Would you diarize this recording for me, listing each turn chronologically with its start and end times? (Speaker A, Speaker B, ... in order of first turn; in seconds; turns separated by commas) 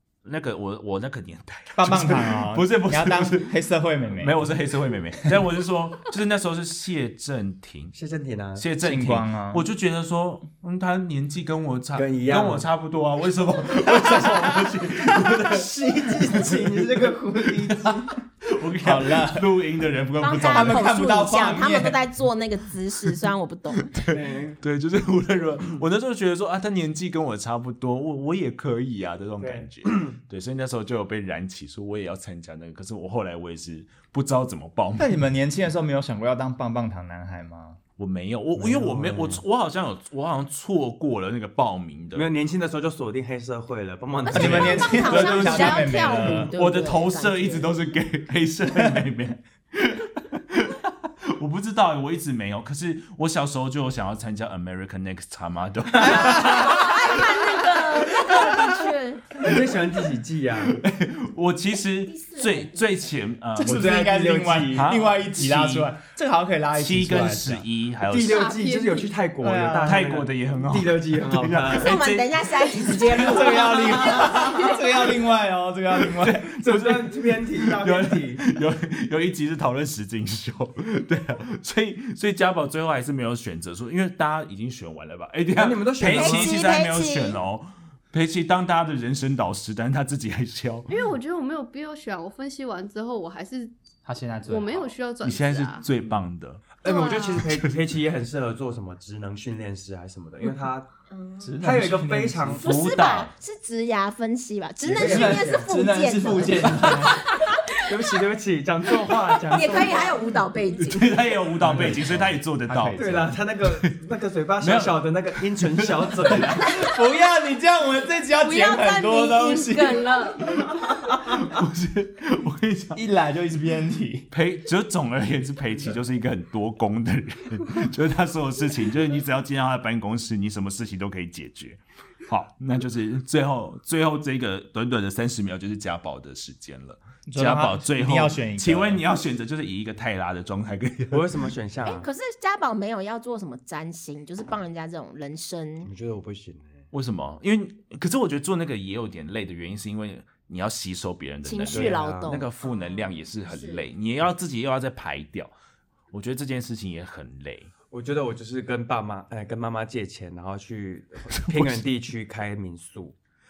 Speaker A: 0.2-3.5, Speaker B: 1.8-4.8, Speaker A: 4.1-8.0, Speaker C: 8.0-8.7, Speaker A: 8.6-20.9, Speaker B: 8.8-9.7, Speaker C: 11.9-12.7, Speaker B: 13.9-14.8, Speaker C: 15.4-18.1, Speaker B: 18.8-19.5, Speaker D: 20.2-23.9, Speaker B: 20.4-22.0, Speaker A: 23.9-35.2, Speaker C: 24.1-24.6, Speaker C: 29.4-30.1, Speaker B: 35.0-37.8, Speaker A: 38.0-42.3, Speaker C: 38.6-39.4, Speaker C: 42.1-45.3, Speaker D: 44.2-47.7, Speaker B: 44.3-46.5, Speaker A: 44.4-58.7, Speaker B: 48.8-49.0, Speaker B: 56.0-57.0, Speaker D: 56.0-59.2, Speaker C: 59.4-60.8, Speaker A: 60.7-64.0, Speaker D: 62.1-63.0, Speaker B: 63.6-67.6, Speaker C: 63.6-65.0, Speaker A: 64.8-65.9, Speaker A: 66.7-68.6, Speaker C: 68.1-72.0, Speaker E: 68.3-69.1, Speaker B: 69.4-70.0, Speaker A: 69.8-74.2, Speaker D: 71.7-74.8, Speaker B: 73.1-76.5, Speaker A: 76.0-90.9, Speaker C: 76.5-78.5, Speaker C: 85.6-86.6, Speaker D: 86.0-87.4, Speaker E: 90.9-93.7, Speaker B: 94.1-94.9, Speaker E: 94.5-95.9, Speaker A: 95.2-96.8, Speaker C: 96.8-100.9, Speaker E: 96.8-97.4, Speaker A: 97.3-97.7, Speaker D: 101.1-101.5, Speaker B: 101.4-102.7, Speaker C: 101.6-103.2, Speaker D: 102.6-107.9, Speaker A: 102.6-103.3, Speaker C: 104.8-105.7, Speaker B: 105.0-107.2, Speaker C: 106.7-107.0, Speaker C: 107.9-110.2, Speaker D: 109.5-111.3, Speaker A: 110.7-113.0, Speaker B: 111.6-113.4, Speaker C: 111.7-111.9, Speaker C: 112.9-116.8, Speaker A: 113.7-114.0, Speaker A: 114.6-116.8, Speaker B: 116.6-120.2, Speaker D: 118.4-120.6, Speaker A: 120.7-123.0, Speaker B: 123.0-124.3, Speaker A: 124.3-141.5, Speaker B: 137.3-139.0, Speaker C: 141.1-142.1, Speaker D: 141.8-145.9, Speaker C: 145.8-146.8, Speaker A: 146.9-155.5, Speaker D: 151.4-153.9, Speaker C: 151.7-152.4, Speaker A: 156.1-157.7, Speaker C: 157.9-163.2, Speaker A: 161.3-161.9